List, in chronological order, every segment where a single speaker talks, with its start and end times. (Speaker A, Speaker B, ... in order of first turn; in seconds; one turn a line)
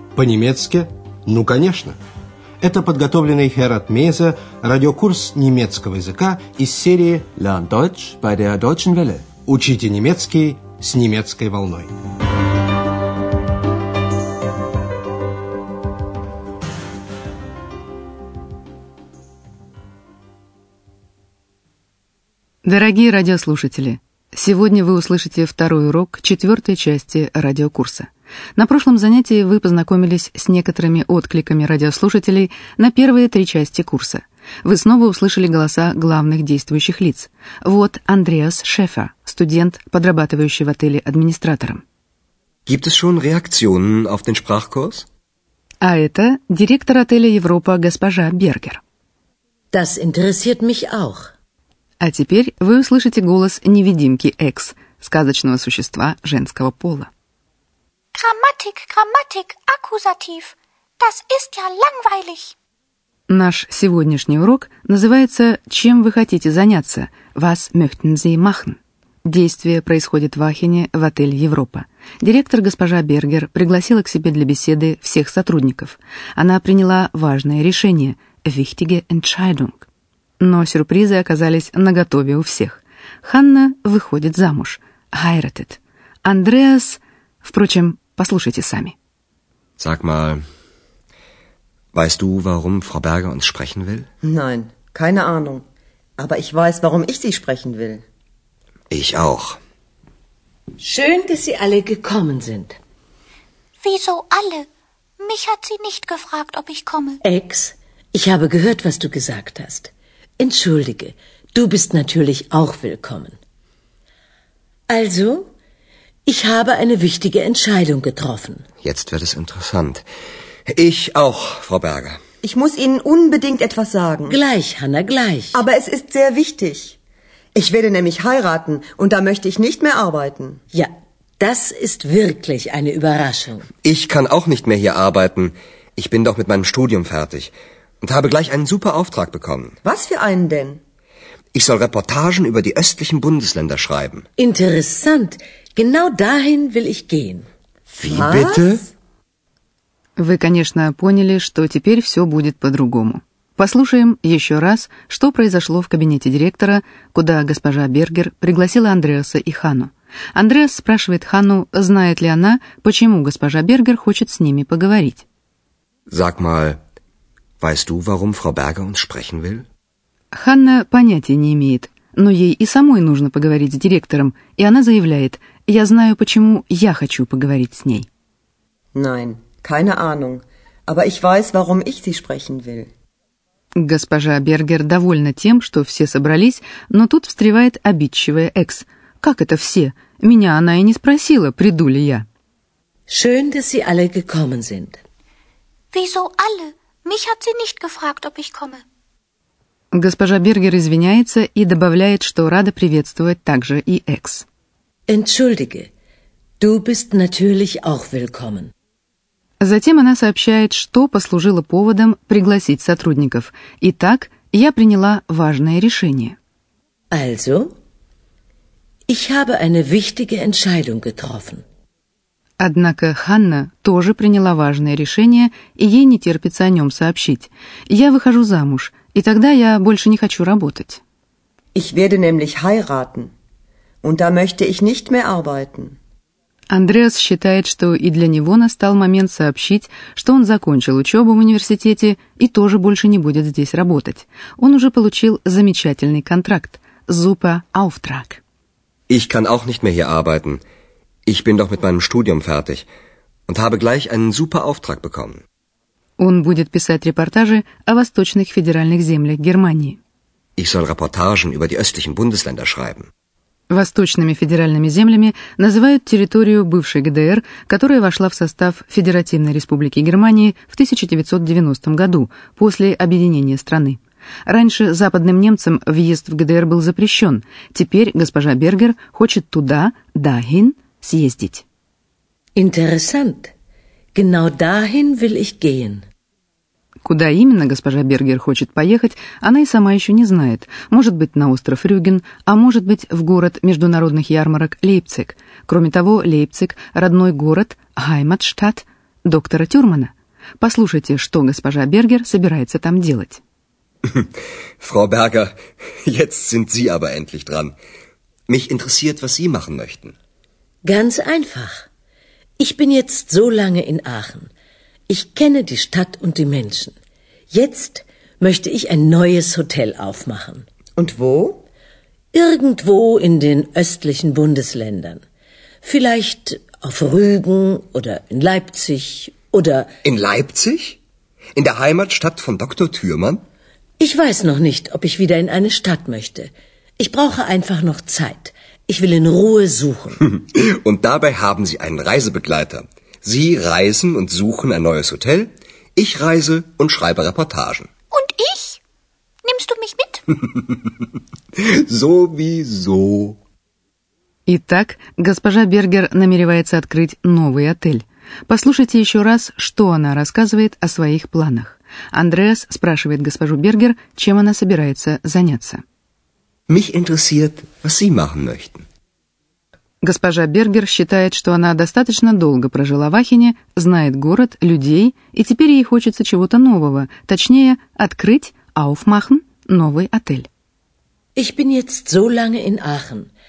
Speaker A: 0.1-2.0
Speaker A: 2.6-7.3
Speaker B: 7.4-9.3
Speaker A: 9.4-11.9
Speaker C: 22.6-41.8
Speaker D: 42.7-45.1
Speaker C: 45.8-48.8
Speaker E: 49.7-51.3
Speaker C: 52.0-57.1
Speaker F: 58.1-62.5
Speaker C: 63.3-79.9
Speaker C: 80.4-89.0
Speaker D: 89.8-90.4
Speaker D: 91.9-94.1
Speaker G: 94.2-95.6
Speaker G: 96.2-98.0
Speaker D: 98.9-99.6
Speaker E: 100.8-102.8
Speaker F: 103.8-104.7
Speaker F: 105.2-107.2
Speaker E: 107.2-113.4
Speaker E: 114.9-115.5
Speaker E: 116.3-118.7
Speaker D: 118.8-120.0
Speaker D: 120.7-122.2
Speaker G: 122.4-124.4
Speaker E: 124.3-125.6
Speaker G: 125.5-127.0
Speaker G: 127.5-130.6
Speaker E: 130.7-133.7
Speaker D: 133.8-139.8
Speaker G: 139.8-140.8
Speaker D: 141.5-144.3
Speaker E: 144.4-147.5
Speaker D: 147.9-148.9
Speaker G: 148.1-148.8
Speaker C: 150.2-165.2
Speaker D: 166.1-166.8
Speaker D: 167.6-169.6
Speaker C: 170.3-178.1
Speaker G: 178.9-182.9
Speaker C: 183.8-192.2
Speaker E: 193.1-195.0
Speaker F: 195.9-198.8
Speaker C: 199.9-204.5
Speaker E: 205.1-205.9
Speaker E: 206.6-208.7
Speaker C: 209.6-216.4
Speaker E: 217.1-217.8
Speaker E: 219.1-221.6
Speaker C: 222.6-231.0
Speaker G: 231.8-233.3
Speaker G: 234.0-236.0
Speaker C: 236.7-248.4
Speaker D: 249.1-250.6
Speaker D: 251.3-252.9
Speaker D: 253.5-255.4
Speaker C: 256.2-260.0
Speaker D: 260.6-263.1
Speaker C: 263.7-281.6
Speaker E: 282.6-283.5
Speaker E: 284.1-286.1
Speaker C: 287.0-303.4
Speaker D: 304.1-307.8
Speaker D: 308.5-310.1
Speaker E: 310.8-311.9
Speaker E: 312.6-314.5
Speaker E: 315.1-317.0
Speaker E: 317.5-320.7
Speaker G: 321.0-321.6
Speaker E: 322.3-325.2
Speaker E: 325.8-329.9
Speaker D: 330.0-331.0
Speaker D: 331.6-333.4
Speaker E: 334.0-340.2
Speaker D: 340.2-347.9
Speaker F: 348.1-348.8
Speaker F: 349.4-350.2
Speaker D: 351.6-353.4
Speaker C: 354.5-365.8
Speaker D: 366.7-368.8
Speaker C: 370.0-380.5
Speaker E: 381.4-383.3